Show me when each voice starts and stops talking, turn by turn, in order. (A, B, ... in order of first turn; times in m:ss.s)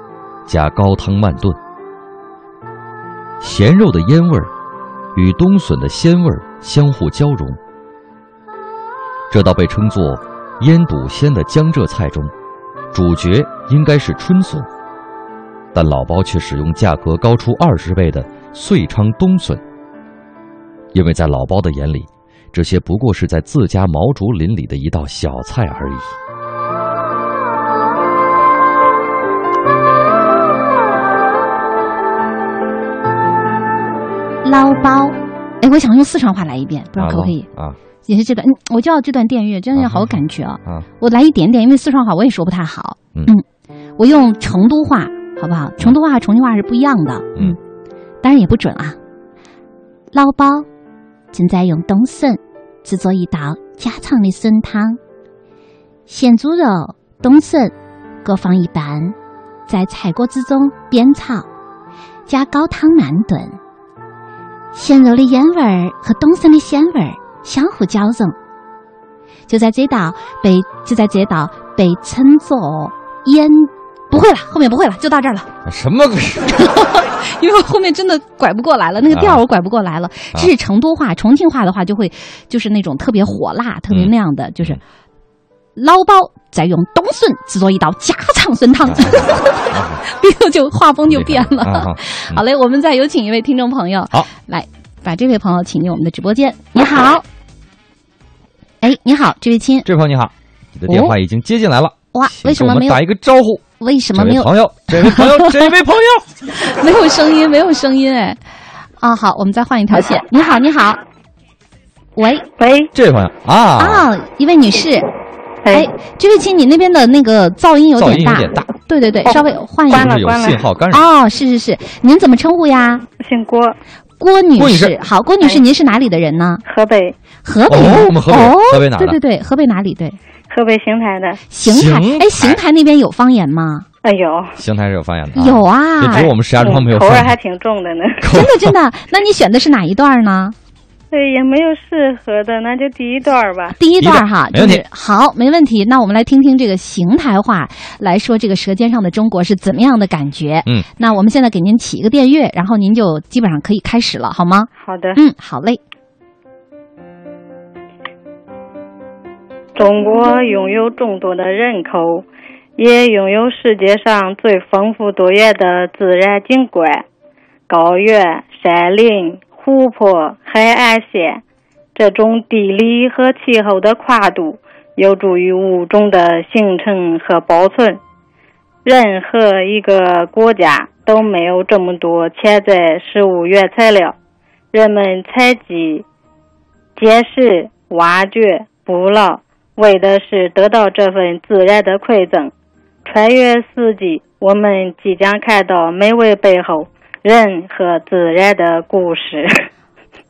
0:00.4-0:01.6 A
0:03.4-0:04.5 A
0:05.1-0:07.6 A
0:09.3-0:12.3 A
0:12.9-0:14.7 A
0:15.7-0:19.6 A
0:20.9-0:26.2 A
0:34.4-0:37.4 B
0:37.0-0:37.8 A
0:38.1-0:43.4 B
0:39.7-0:40.8 A
0:44.0-0:47.6 B
0:48.2-0:49.0 B
0:50.1-0:50.7 B
0:51.3-0:55.0 B
0:56.1-0:59.1 B
0:59.7-1:01.5 B
1:02.3-1:03.6 B
1:04.7-1:08.4 B
1:09.5-1:15.5 B
1:15.6-1:16.7 A
1:16.6-1:24.8 B
1:19.1-1:19.4 A
1:23.9-1:24.8 A
1:25.8-1:37.2 B
1:28.8-1:30.0 A
1:31.1-1:32.4 A
1:38.8-1:39.8 B
1:39.8-1:43.6 A
1:40.9-1:41.1 B
1:42.1-1:43.0 B
1:43.8-1:45.6 B
1:44.1-1:46.2 A
1:46.5-1:48.4 B
1:49.0-1:51.0 B
1:52.2-1:52.5 B
1:52.6-1:52.9 C
1:52.9-1:54.1 A
1:53.8-1:55.1 B
1:55.6-1:55.9 C
1:55.7-2:00.1 B
1:58.0-1:58.6 A
1:59.9-2:00.6 C
1:59.9-2:01.0 A
2:00.9-2:03.0 B
2:03.2-2:03.8 C
2:04.2-2:06.6 B
2:04.6-2:04.9 A
2:06.6-2:07.2 C
2:07.4-2:10.2 B
2:07.7-2:09.2 A
2:10.5-2:11.4 C
2:11.5-2:13.8 B
2:11.6-2:12.6 A
2:14.0-2:14.6 C
2:14.6-2:17.3 A
2:15.4-2:16.3 B
2:16.1-2:18.2 C
2:18.2-2:18.7 A
2:18.2-2:20.5 B
2:21.1-2:23.8 C
2:23.7-2:35.8 B
2:24.0-2:24.8 A
2:34.8-2:35.2 C
2:39.8-2:42.2 C
2:42.8-2:47.0 C
2:47.7-2:51.4 C
2:52.0-2:58.0 C
2:58.8-3:04.2 C
3:04.7-3:06.0 C
3:07.0-3:12.5 C
3:13.0-3:19.7 C